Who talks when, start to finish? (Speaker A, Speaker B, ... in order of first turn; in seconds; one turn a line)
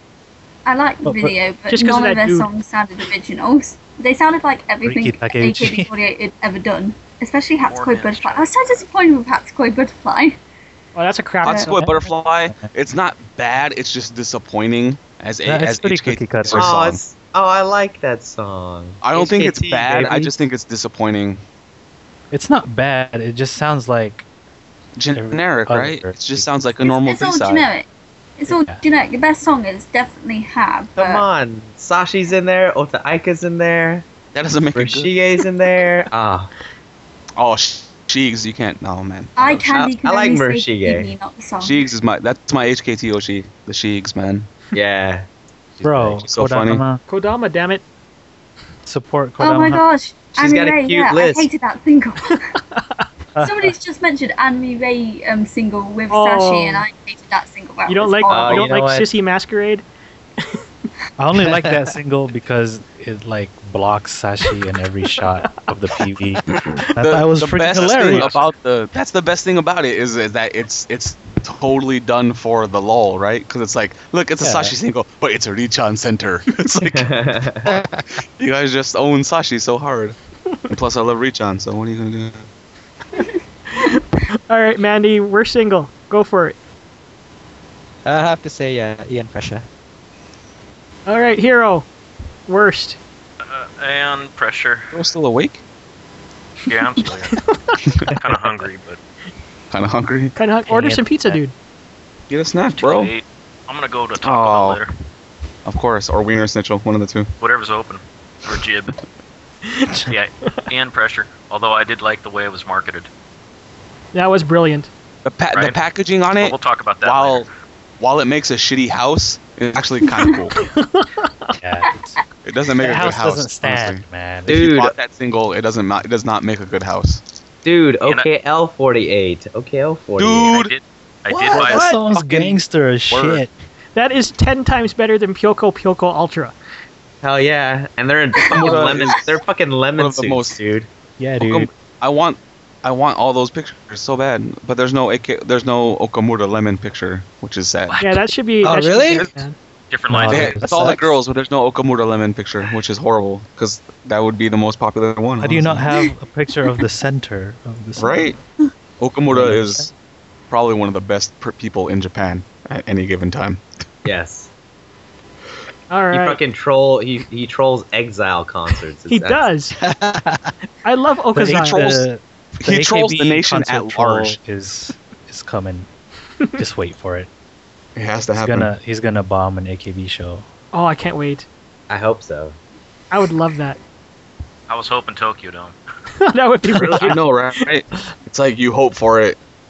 Speaker A: 0.7-10.4
Speaker B: 1.1-1.3
Speaker C: 1.7-2.5
Speaker B: 4.8-5.9
Speaker D: 7.7-8.8
Speaker C: 10.9-12.0
Speaker E: 11.4-17.0
Speaker A: 11.5-11.8
Speaker B: 15.5-16.8
Speaker F: 16.5-20.3
Speaker E: 19.0-21.4
Speaker B: 20.0-20.3
Speaker B: 22.3-24.3
Speaker E: 25.0-27.7
Speaker B: 25.1-26.5
Speaker A: 26.8-27.9
Speaker A: 28.4-31.3
Speaker B: 28.5-28.8
Speaker F: 31.0-34.1
Speaker E: 34.3-35.1
Speaker F: 34.8-36.5
Speaker E: 37.4-39.8
Speaker A: 39.4-41.9
Speaker F: 39.7-41.1
Speaker E: 41.6-44.5
Speaker F: 44.7-46.2
Speaker B: 45.8-47.0
Speaker E: 46.2-46.8
Speaker C: 47.1-47.8
Speaker B: 48.9-49.8
Speaker A: 49.4-52.4
Speaker F: 50.3-51.5
Speaker B: 53.4-53.8
Speaker A: 53.4-58.7
Speaker C: 56.1-56.9
Speaker C: 57.9-59.8
Speaker F: 58.3-59.1
Speaker B: 61.2-66.4
Speaker B: 67.0-68.4
Speaker E: 67.0-77.2
Speaker C: 67.9-68.4
Speaker B: 74.4-74.7
Speaker F: 76.8-77.7
Speaker G: 77.7-78.0
Speaker E: 78.4-80.2
Speaker E: 80.7-82.5
Speaker C: 83.8-86.6
Speaker G: 88.0-89.7
Speaker C: 91.1-91.9
Speaker C: 92.5-93.0
Speaker D: 93.4-94.9
Speaker E: 94.9-95.6
Speaker D: 96.7-97.4
Speaker C: 97.5-97.8
Speaker E: 97.8-98.1
Speaker D: 98.1-99.0
Speaker E: 99.7-100.3
Speaker C: 100.3-101.5
Speaker B: 100.7-101.4
Speaker E: 102.3-103.1
Speaker D: 102.8-104.9
Speaker E: 104.2-104.8
Speaker E: 105.7-107.3
Speaker D: 107.4-109.0
Speaker C: 109.7-110.1
Speaker D: 110.1-113.1
Speaker C: 114.1-114.9
Speaker E: 115.2-117.5
Speaker D: 115.5-115.8
Speaker D: 116.3-117.5
Speaker E: 118.0-120.6
Speaker C: 120.6-121.5
Speaker B: 121.6-122.2
Speaker E: 122.5-127.2
Speaker B: 122.8-124.7
Speaker F: 124.5-125.0
Speaker F: 127.7-130.6
Speaker D: 128.0-128.3
Speaker E: 130.2-130.8
Speaker D: 130.5-131.8
Speaker E: 131.3-133.4
Speaker B: 131.5-133.5
Speaker C: 131.6-132.0
Speaker C: 133.9-136.6
Speaker F: 137.2-140.9
Speaker E: 138.5-139.4
Speaker E: 140.0-140.6
Speaker B: 141.2-141.7
Speaker E: 141.4-148.0
Speaker D: 147.9-148.2
Speaker C: 148.0-149.6
Speaker G: 148.6-149.3
Speaker D: 149.9-150.6
Speaker B: 150.1-151.0
Speaker E: 150.3-155.8
Speaker G: 150.7-151.1
Speaker B: 155.4-158.3
Speaker E: 158.0-158.4
Speaker E: 159.0-159.9
Speaker B: 159.3-159.9
Speaker E: 160.5-163.6
Speaker F: 164.1-164.5
Speaker C: 165.9-166.4
Speaker F: 166.1-169.5
Speaker C: 169.1-169.8
Speaker G: 169.8-170.5
Speaker C: 170.8-172.0
Speaker B: 171.3-175.9
Speaker E: 171.5-172.0
Speaker E: 172.6-174.4
Speaker B: 176.6-177.3
Speaker E: 178.0-178.7
Speaker B: 178.4-180.5
Speaker C: 180.7-181.5
Speaker F: 181.9-182.6
Speaker C: 183.1-183.8
Speaker D: 184.7-185.8
Speaker C: 186.2-187.7
Speaker E: 186.7-189.4